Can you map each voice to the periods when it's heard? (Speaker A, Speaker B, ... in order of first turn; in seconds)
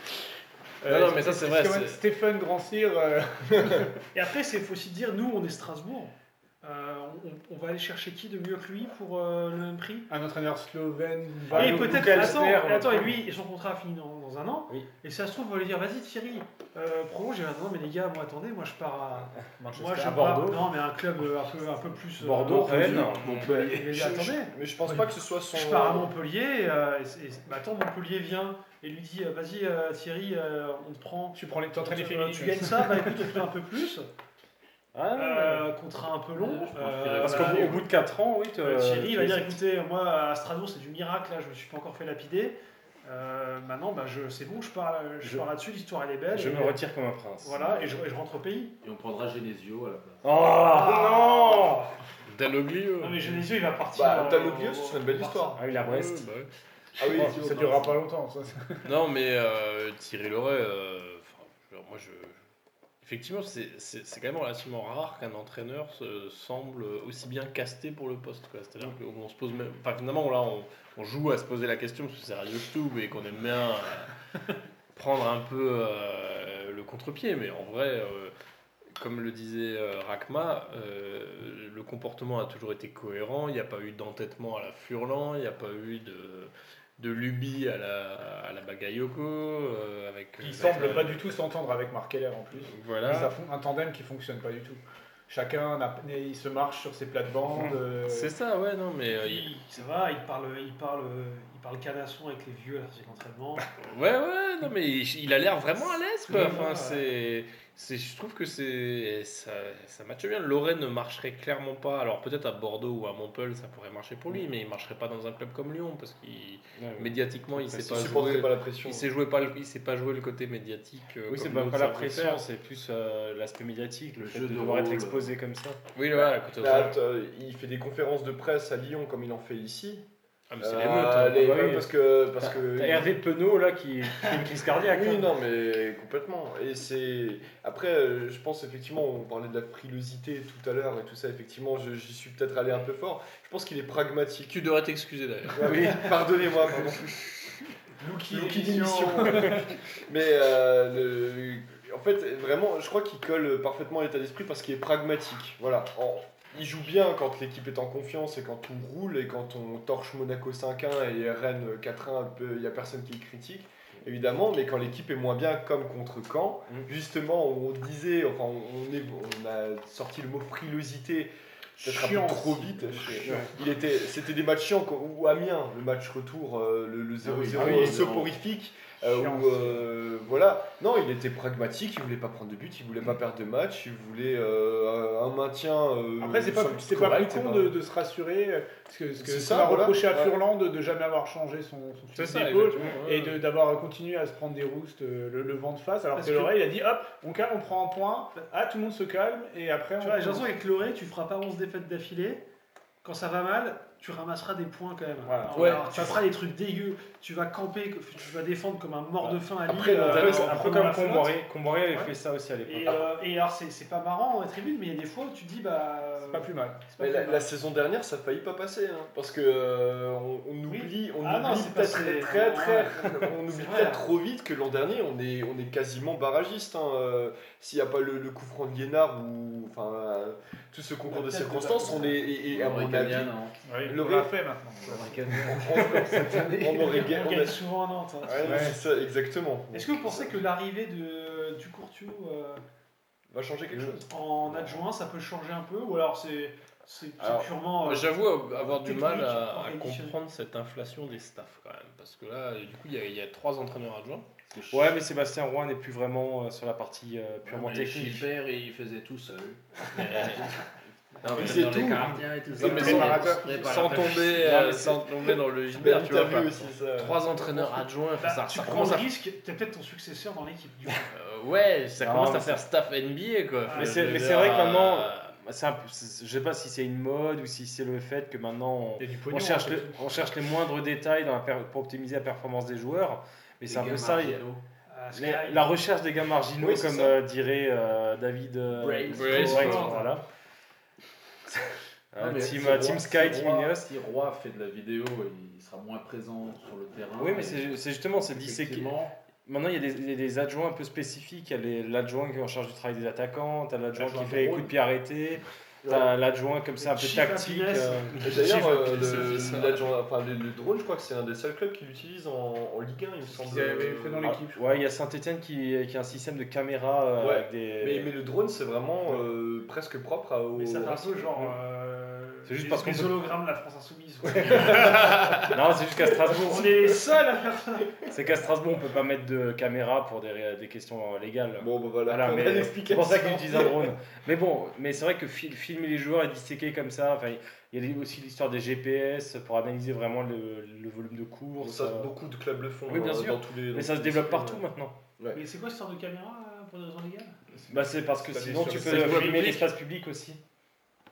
Speaker A: 0.8-4.0, 10.1-12.4, 19.6-20.7, 31.3-33.3, 57.1-58.9, 90.4-98.3, 148.0-149.7, 171.8-173.5, 179.0-179.8, 186.2-200.5, 205.2-206.2, 210.2-211.3, 216.2-216.9, 233.6-235.4, 238.4-238.8, 279.0-280.1, 304.0-304.6, 313.3-314.8, 347.5-349.6
Speaker B: 0.9-2.0, 52.3-53.4, 55.8-56.5, 58.8-62.4, 63.0-74.1, 74.9-78.3, 79.0-91.3, 92.7-93.3, 97.6-99.5, 103.8-122.4, 125.9-127.0, 130.5-131.5, 144.5-145.9, 192.1-193.4, 247.8-254.3, 259.9-260.5, 261.4-261.7, 262.6-269.1, 271.1-275.2, 289.1-289.9, 308.1-309.9, 348.8-349.6
Speaker C: 1.1-1.6, 22.5-23.9, 36.4-37.8, 48.8-50.2, 124.2-125.3, 177.2-178.4, 231.2-233.6, 234.8-237.0, 254.5-254.9, 257.4-260.5, 261.2-264.6, 283.6-284.6, 288.7-290.0, 292.2-299.1
Speaker D: 4.1-10.1, 11.5-25.0, 25.5-34.0, 35.1-37.8, 38.6-46.8, 47.4-48.7, 50.6-52.0, 53.0-55.6, 99.1-103.7, 106.3-107.0, 196.1-196.6, 200.0-202.4, 203.0-211.3, 212.6-217.5, 220.7-224.1, 231.5-232.0, 236.7-238.7, 239.7-242.6, 244.1-250.2, 268.2-271.1, 273.6-273.9, 284.9-285.7, 289.3-290.1, 306.8-308.2, 320.5-325.5, 326.0-328.0, 345.3-347.4
Speaker E: 11.5-13.2, 20.3-20.6, 22.2-23.5, 34.9-35.7, 37.2-39.6, 46.3-47.8, 50.2-51.8, 55.6-56.2, 116.8-118.3, 121.3-125.8, 131.2-135.3, 145.6-146.1, 173.2-173.5, 177.6-178.1, 210.1-213.0, 254.7-258.3, 264.3-265.0, 272.0-272.6, 273.7-284.4, 285.1-290.2, 292.1-293.9, 297.2-308.3, 314.2-318.1, 322.4-323.3, 324.3-326.8, 328.1-342.1, 342.9-344.9, 347.7-350.4
Speaker F: 23.2-26.1, 53.9-55.6, 57.0-57.9, 117.8-119.1, 126.1-130.0, 130.6-133.2, 134.7-144.6, 145.5-147.5, 148.0-187.8, 189.2-190.4, 205.6-205.8, 209.6-210.6, 217.0-234.3, 235.4-237.6, 238.2-240.4, 243.3-244.1, 247.2-247.5, 261.2-264.3, 265.3-267.2, 286.6-287.2, 305.8-306.1, 308.2-314.4, 317.2-321.3, 331.6-333.9, 341.6-344.6